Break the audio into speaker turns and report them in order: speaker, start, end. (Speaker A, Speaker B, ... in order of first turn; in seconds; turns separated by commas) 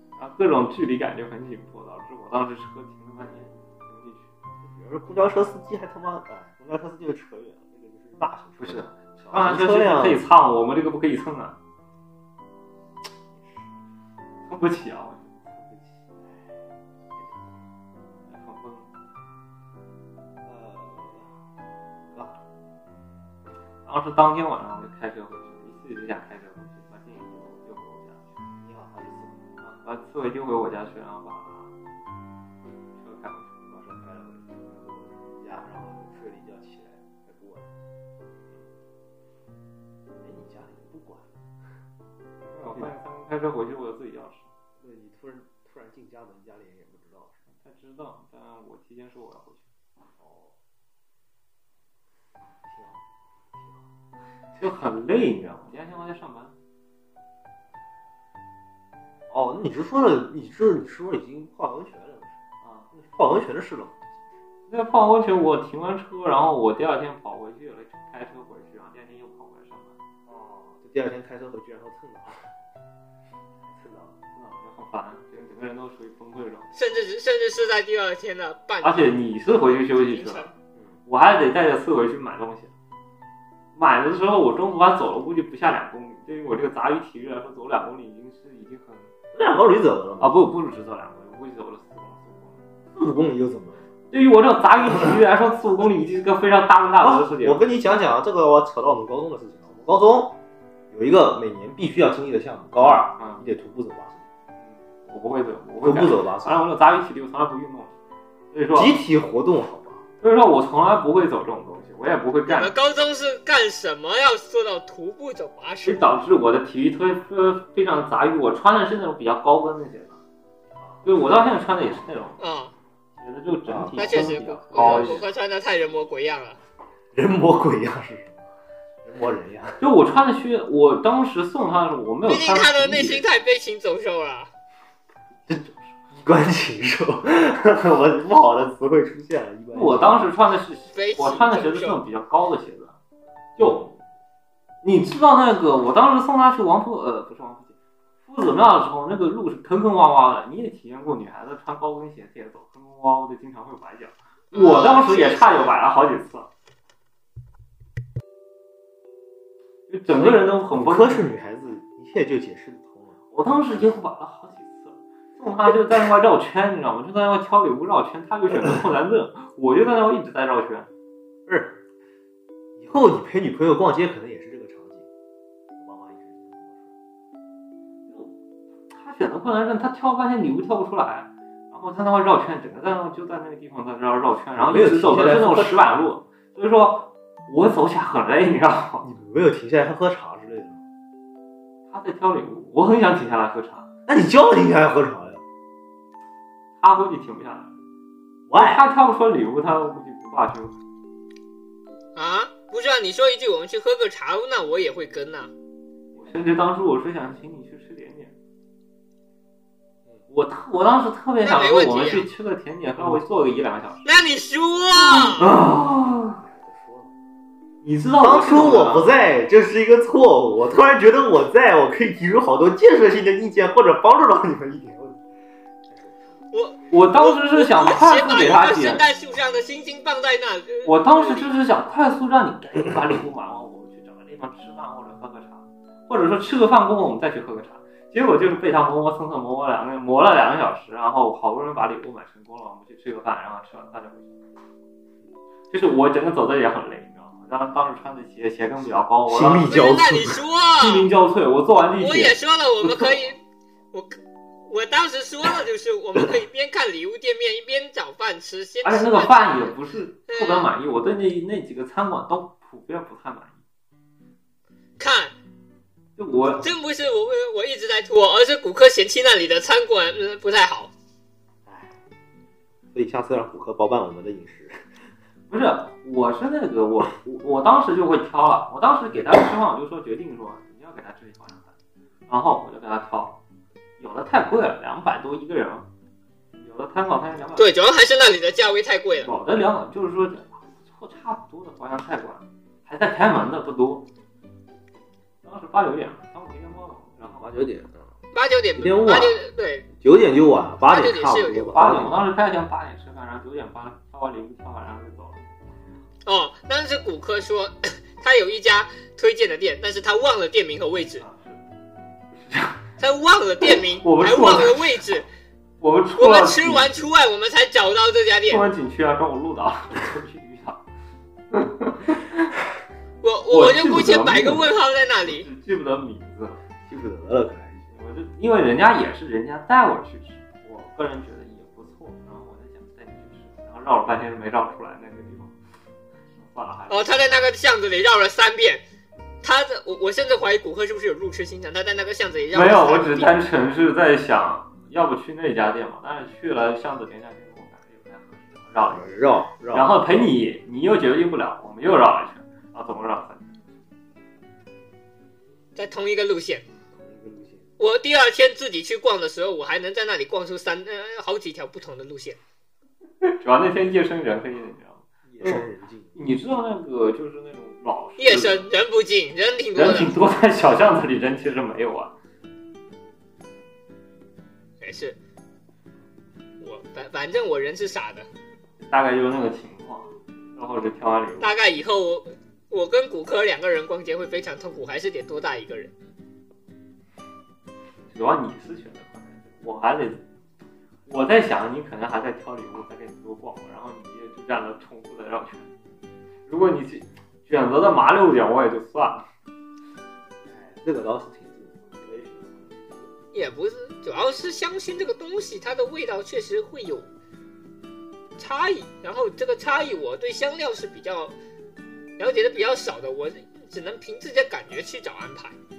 Speaker A: 0.2-4.3, Speaker B: 4.6-10.2, Speaker A: 8.6-11.6, Speaker B: 13.3-13.7, Speaker A: 14.4-15.5, Speaker B: 15.5-16.4, Speaker B: 17.1-17.6, Speaker A: 18.3-18.9, Speaker B: 20.4-21.3, Speaker B: 22.0-22.4, Speaker A: 23.8-28.3, Speaker B: 28.6-29.4, Speaker A: 29.6-31.7, Speaker A: 33.0-34.0, Speaker B: 33.9-37.7, Speaker B: 40.1-41.3, Speaker A: 42.5-44.5, Speaker B: 42.6-42.9, Speaker B: 44.8-47.4, Speaker A: 47.6-49.6, Speaker B: 50.2-50.5, Speaker B: 52.6-53.0, Speaker B: 53.5-53.9, Speaker A: 54.6-56.5, Speaker B: 59.3-64.4, Speaker A: 62.6-62.9, Speaker A: 64.7-70.0, Speaker B: 70.3-72.5, Speaker B: 73.6-74.2, Speaker A: 74.3-76.7, Speaker C: 76.7-79.1, Speaker A: 78.8-80.5, Speaker C: 80.1-80.5, Speaker A: 81.1-82.7, Speaker A: 83.7-89.1, Speaker B: 89.3-90.4, Speaker A: 90.2-92.7, Speaker B: 92.9-93.8, Speaker A: 94.1-97.6, Speaker B: 94.8-95.1, Speaker B: 97.0-100.4, Speaker B: 100.9-104.2, Speaker A: 102.8-103.4, Speaker A: 104.6-107.9, Speaker B: 105.8-106.6, Speaker A: 108.5-109.0, Speaker B: 108.7-110.0, Speaker A: 110.2-112.7, Speaker C: 112.5-116.0, Speaker A: 115.8-120.2, Speaker A: 121.0-122.4, Speaker C: 122.4-122.7, Speaker A: 123.2-125.3, Speaker B: 123.7-125.2, Speaker C: 124.0-126.6, Speaker B: 127.1-128.4, Speaker B: 129.0-129.8, Speaker A: 129.8-133.2, Speaker C: 132.2-134.5, Speaker A: 135.5-135.9, Speaker B: 136.1-140.3, Speaker A: 139.7-142.9, Speaker C: 140.9-142.0, Speaker A: 143.6-143.9, Speaker A: 144.8-156.5, Speaker C: 154.5-155.7, Speaker A: 159.9-161.2, Speaker B: 160.1-163.2, Speaker A: 163.3-170.9, Speaker B: 171.5-171.8, Speaker B: 172.8-175.1, Speaker B: 175.8-176.9, Speaker A: 178.9-189.0, Speaker B: 184.5-186.1, Speaker B: 189.0-190.8, Speaker A: 191.9-193.9, Speaker B: 194.1-195.4, Speaker A: 196.8-197.7, Speaker B: 198.5-198.8, Speaker A: 198.5-200.7, Speaker C: 202.2-205.5, Speaker A: 206.1-208.3, Speaker A: 210.3-214.1, Speaker C: 211.4-212.2, Speaker C: 214.0-215.4, Speaker A: 215.0-216.4, Speaker B: 216.3-217.1, Speaker A: 217.8-219.1, Speaker B: 218.2-225.2, Speaker B: 225.9-226.4, Speaker C: 226.5-231.5, Speaker A: 226.9-229.0, Speaker A: 230.8-244.3, Speaker A: 245.7-249.8, Speaker B: 249.2-250.4, Speaker C: 249.7-251.1, Speaker A: 250.8-252.3, Speaker C: 252.0-253.4, Speaker C: 254.7-259.7, Speaker A: 258.8-263.6, Speaker C: 260.3-260.7, Speaker C: 265.0-265.3, Speaker A: 266.2-266.7, Speaker C: 266.6-270.9, Speaker B: 271.6-271.9, Speaker B: 272.9-274.9, Speaker A: 275.5-281.7, Speaker A: 282.3-283.4, Speaker A: 284.0-285.9, Speaker A: 286.6-287.7, Speaker C: 287.6-289.3, Speaker A: 289.2-294.1, Speaker A: 295.4-297.4, Speaker B: 297.2-298.1, Speaker C: 298.3-299.9, Speaker B: 298.8-299.4, Speaker B: 299.9-302.1, Speaker C: 300.9-301.8, Speaker A: 301.7-305.4, Speaker C: 306.2-311.2, Speaker A: 311.2-311.6, Speaker A: 312.3-312.8, Speaker C: 313.0-315.2, Speaker A: 314.0-315.1, Speaker A: 315.8-317.1, Speaker C: 316.2-318.6, Speaker A: 318.5-320.8, Speaker A: 321.5-322.5, Speaker C: 323.2-325.4, Speaker A: 323.5-326.6, Speaker B: 326.8-327.9, Speaker A: 327.9-335.5, Speaker A: 336.3-337.5, Speaker C: 336.9-338.8, Speaker C: 339.4-343.3, Speaker A: 342.5-353.6, Speaker B: 348.9-350.3, Speaker C: 355.8-356.6, Speaker B: 356.9-357.6, Speaker C: 357.8-362.4, Speaker A: 363.2-368.7, Speaker B: 365.3-366.2, Speaker C: 368.2-370.1, Speaker A: 369.7-372.1, Speaker C: 374.8-375.2, Speaker C: 376.6-378.3, Speaker A: 378.8-381.5, Speaker C: 381.4-385.9, Speaker A: 388.1-390.2, Speaker A: 391.1-395.7, Speaker A: 396.5-399.2, Speaker B: 400.4-403.1, Speaker C: 403.3-407.1, Speaker C: 408.4-411.3, Speaker C: 412.2-415.6